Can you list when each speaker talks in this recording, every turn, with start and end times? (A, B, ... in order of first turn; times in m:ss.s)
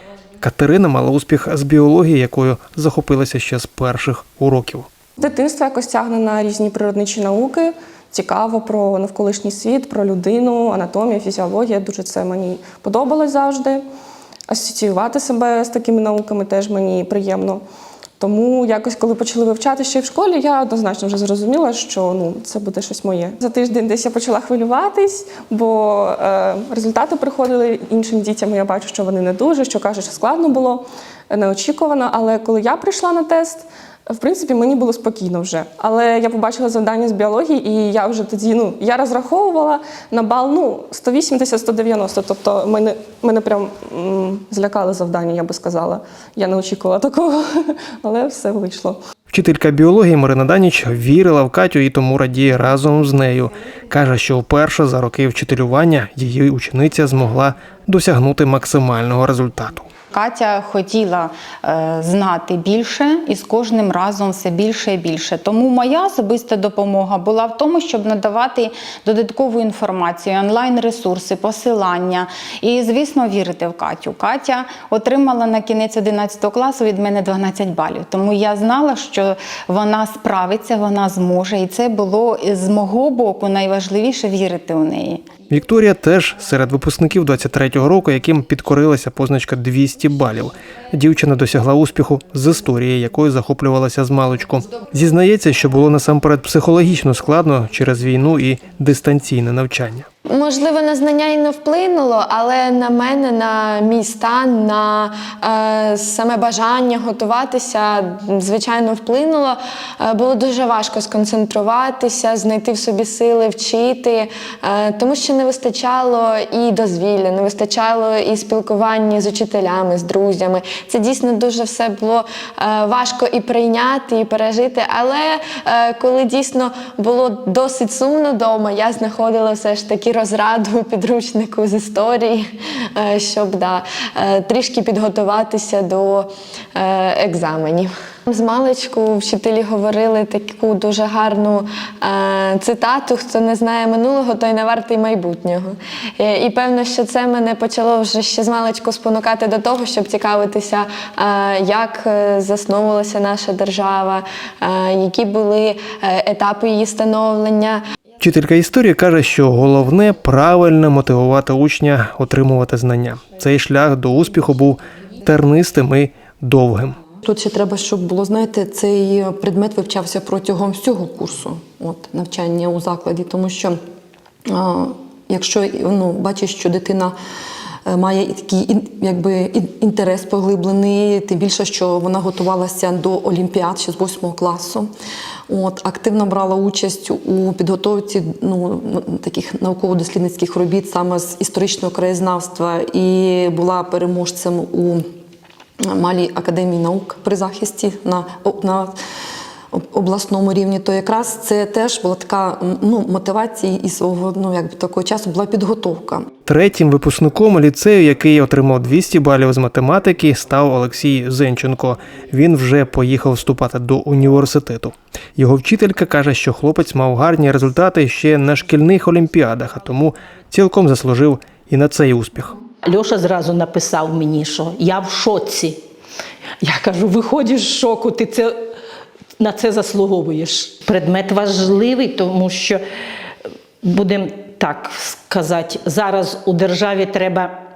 0:00.4-0:04.9 A
0:05.2-0:13.8 B
0:14.5-0:17.6 B
0:18.2-0:49.0 B
0:49.3-0:59.9 A
1:00.1-1:25.2 C
1:25.5-1:40.1 A
1:40.3-2:37.8 D
2:38.2-2:47.0 A
2:47.2-2:53.8 E
2:54.4-2:57.1 E
2:57.8-3:04.9 E
3:05.5-3:15.0 E
3:15.9-3:19.0 E
3:19.7-3:26.3 E
3:26.4-3:42.6 A
3:42.8-3:45.8 F
3:46.6-3:48.6 F
3:49.4-3:52.8 F
3:53.8-3:57.6 F